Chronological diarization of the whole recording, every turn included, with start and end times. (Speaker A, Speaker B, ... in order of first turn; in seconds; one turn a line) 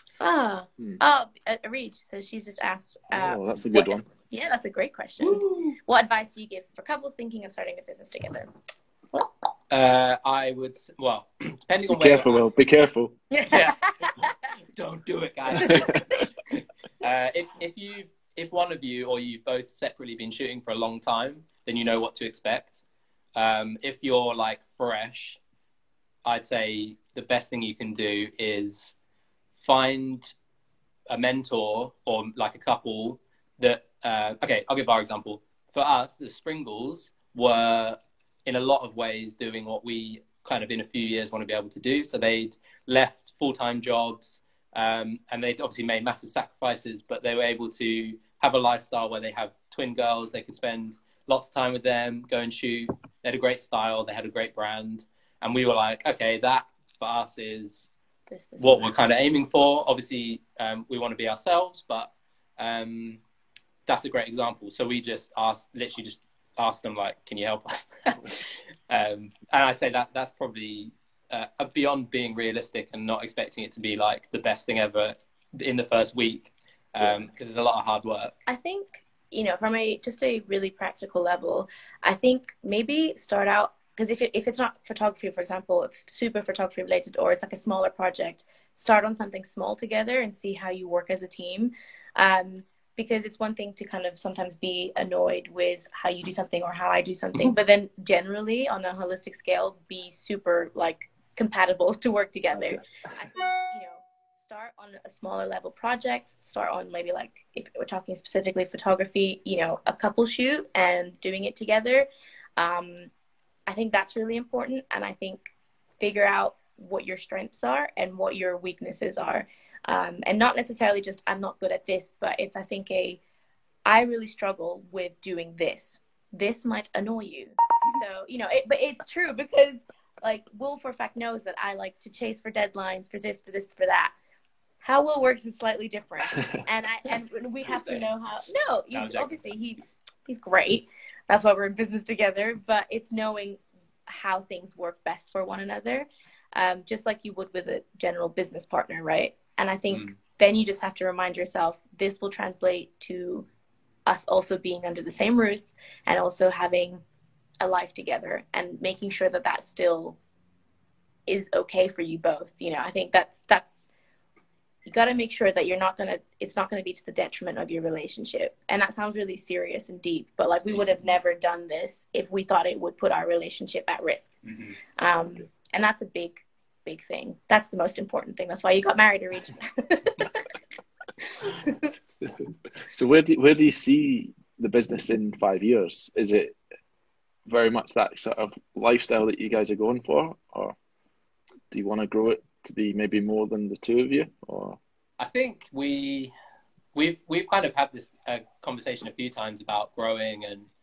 Speaker A: 0.2-8.5
Speaker B: 3.1-4.1
Speaker C: 5.2-5.8
Speaker C: 9.7-12.4
Speaker B: 11.9-13.2
Speaker A: 13.3-14.3
Speaker C: 13.5-14.2
Speaker C: 14.7-22.8
Speaker A: 15.6-15.9
Speaker B: 15.6-16.2
Speaker C: 23.4-25.4
Speaker C: 26.2-28.9
Speaker C: 29.6-30.3
Speaker C: 31.1-57.9
Speaker A: 58.3-58.9
Speaker C: 58.6-63.2
Speaker C: 63.9-78.4
Speaker A: 78.5-113.1
Speaker B: 102.5-102.8
Speaker A: 113.7-123.2
Speaker A: 123.9-134.1
Speaker A: 134.8-153.5
Speaker B: 136.3-136.6
Speaker C: 137.7-138.0
Speaker C: 138.9-139.5
Speaker A: 154.1-157.0
Speaker A: 157.6-160.2
Speaker A: 161.3-163.9
Speaker A: 164.9-174.3
Speaker C: 170.7-171.0
Speaker C: 174.4-174.8
Speaker A: 175.0-180.4
Speaker A: 181.4-181.9
Speaker B: 182.9-186.6
Speaker B: 187.5-190.8
Speaker B: 191.7-194.8
Speaker C: 195.2-196.3
Speaker C: 196.9-200.7